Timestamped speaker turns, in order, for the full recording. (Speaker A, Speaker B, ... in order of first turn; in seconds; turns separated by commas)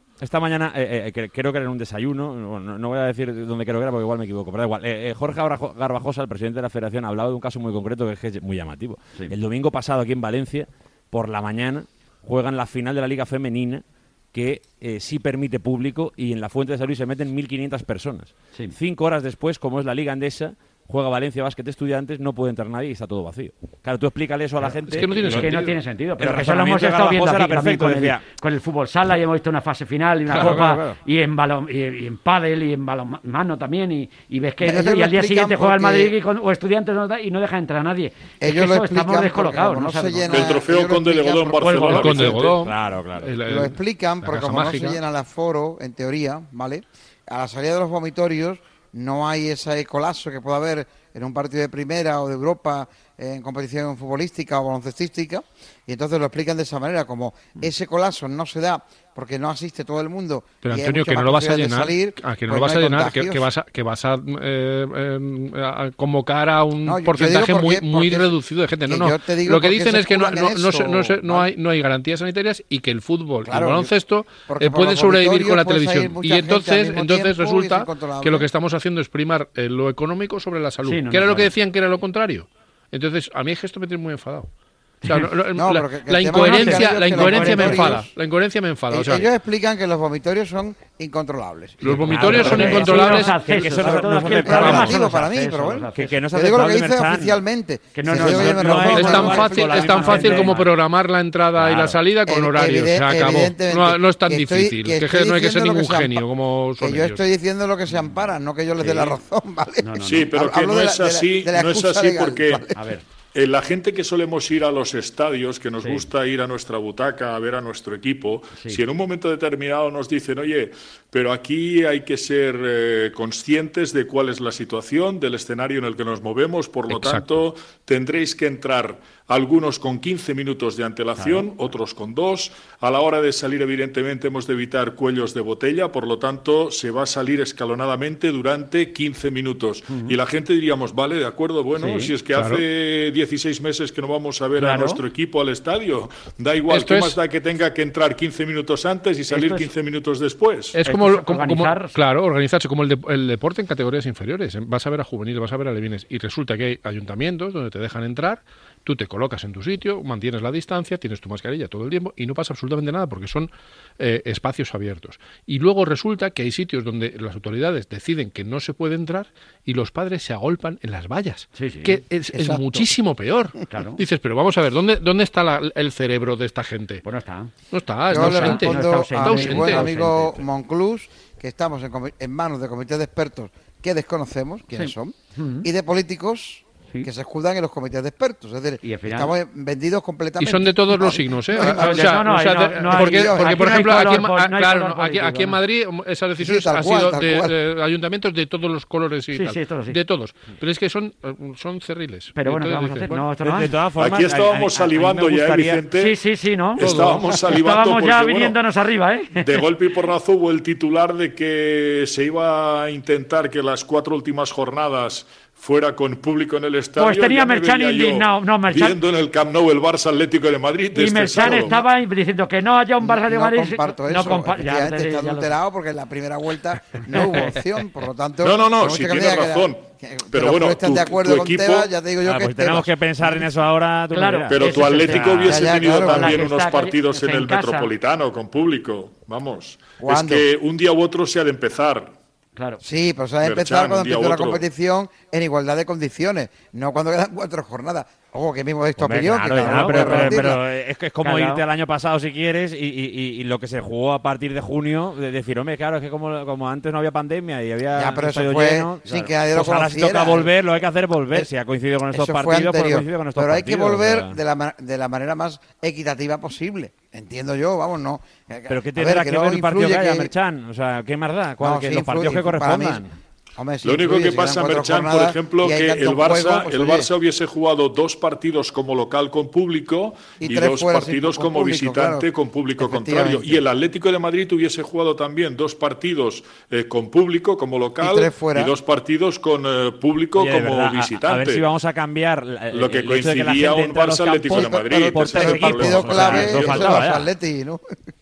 Speaker A: 0.2-25.6, Speaker B: 24.9-25.8, Speaker C: 25.3-40.5, Speaker A: 26.2-28.2, Speaker A: 30.3-31.0, Speaker B: 30.3-30.7, Speaker D: 34.6-36.1, Speaker D: 38.4-42.4, Speaker E: 40.3-42.6, Speaker C: 41.6-42.4, Speaker B: 41.9-45.0, Speaker A: 42.6-43.4, Speaker D: 43.5-63.5, Speaker B: 60.6-84.5, Speaker D: 66.8-68.3, Speaker D: 68.9-71.5, Speaker D: 73.5-73.9, Speaker D: 74.5-78.5, Speaker C: 80.8-81.5, Speaker C: 85.0-85.3, Speaker B: 85.0-89.3, Speaker D: 85.5-88.1, Speaker C: 86.4-88.0, Speaker D: 88.9-99.7, Speaker B: 91.8-93.4, Speaker C: 91.9-96.2, Speaker A: 92.0-95.0, Speaker B: 94.6-94.9, Speaker A: 96.0-97.4, Speaker C: 98.0-100.7, Speaker A: 98.1-100.6, Speaker B: 98.9-107.2, Speaker A: 101.6-102.0, Speaker D: 102.3-106.3, Speaker D: 106.8-112.8, Speaker C: 108.8-109.1, Speaker C: 109.8-110.3, Speaker E: 110.1-112.7, Speaker C: 112.8-113.0, Speaker E: 113.3-150.8, Speaker B: 126.9-127.4, Speaker C: 131.2-131.5, Speaker C: 139.9-140.1, Speaker C: 141.8-142.1, Speaker B: 142.3-142.7, Speaker C: 144.6-145.0, Speaker B: 146.7-147.2, Speaker C: 149.3-149.7, Speaker B: 150.8-177.0, Speaker C: 150.9-152.0, Speaker C: 171.6-172.0, Speaker D: 172.3-172.9, Speaker C: 173.7-174.0, Speaker C: 177.0-177.5, Speaker B: 177.7-179.9, Speaker D: 178.1-192.3, Speaker C: 178.1-180.4, Speaker C: 184.8-185.7, Speaker C: 188.8-189.3, Speaker B: 190.4-203.3, Speaker C: 191.6-195.6, Speaker D: 192.8-193.8, Speaker D: 196.4-197.5, Speaker C: 199.3-200.0, Speaker C: 202.3-203.7, Speaker A: 203.4-205.8, Speaker E: 204.0-206.2, Speaker C: 205.9-209.6, Speaker E: 206.8-208.6, Speaker B: 206.8-207.4, Speaker E: 209.4-221.8, Speaker C: 217.0-219.0, Speaker C: 220.9-225.5, Speaker D: 223.0-233.0, Speaker C: 227.1-227.6, Speaker E: 228.4-231.9, Speaker A: 232.2-235.5, Speaker C: 234.1-237.9, Speaker E: 234.5-242.1, Speaker D: 235.5-236.5, Speaker D: 240.0-240.4, Speaker C: 242.6-242.8, Speaker D: 242.8-250.6, Speaker E: 243.4-244.7, Speaker A: 249.0-264.4, Speaker C: 249.5-250.6, Speaker C: 251.2-251.6, Speaker D: 257.9-260.5, Speaker C: 259.1-259.3, Speaker D: 262.1-270.3, Speaker A: 268.7-273.1, Speaker D: 271.6-273.1, Speaker D: 273.6-277.1, Speaker E: 273.8-291.7, Speaker D: 280.4-282.3, Speaker D: 282.8-283.6, Speaker D: 288.0-288.7, Speaker A: 290.4-297.3, Speaker E: 292.7-297.1, Speaker D: 294.5-298.0